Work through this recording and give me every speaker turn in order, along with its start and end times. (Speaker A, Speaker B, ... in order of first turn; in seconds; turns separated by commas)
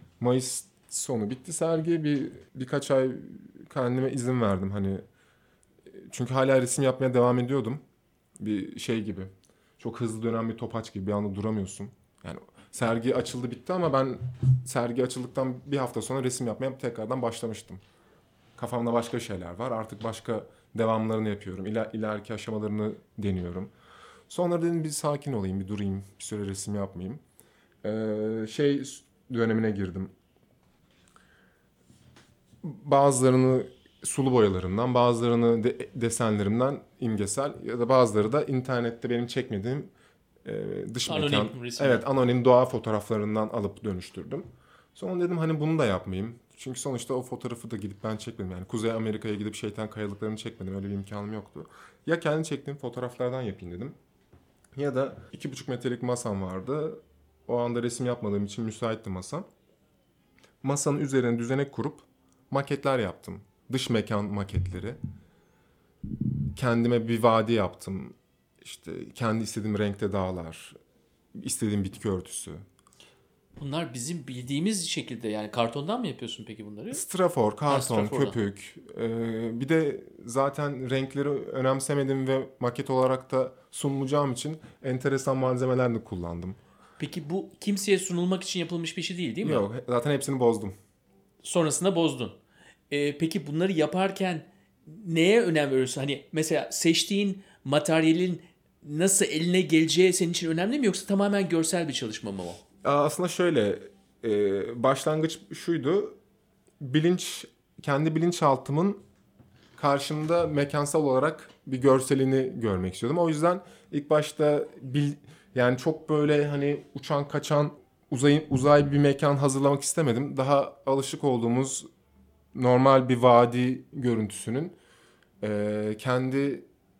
Speaker A: 0.2-5.0, Speaker A: 5.9-7.8, Speaker A: 8.4-17.8, Speaker A: 18.6-23.7, Speaker A: 24.3-27.2, Speaker A: 27.8-30.1, Speaker A: 32.6-39.9, Speaker A: 40.4-53.9, Speaker B: 41.0-42.0, Speaker A: 54.8-59.4, Speaker A: 60.6-65.0, Speaker A: 66.5-70.8, Speaker A: 71.3-72.6, Speaker B: 73.6-77.0, Speaker A: 76.9-86.6, Speaker B: 77.7-78.4, Speaker B: 87.0-89.7, Speaker A: 89.4-90.7, Speaker B: 91.4-92.4, Speaker B: 92.9-102.6, Speaker A: 102.8-106.2, Speaker A: 106.8-109.0, Speaker A: 109.8-121.8, Speaker A: 122.5-124.8, Speaker A: 125.4-126.7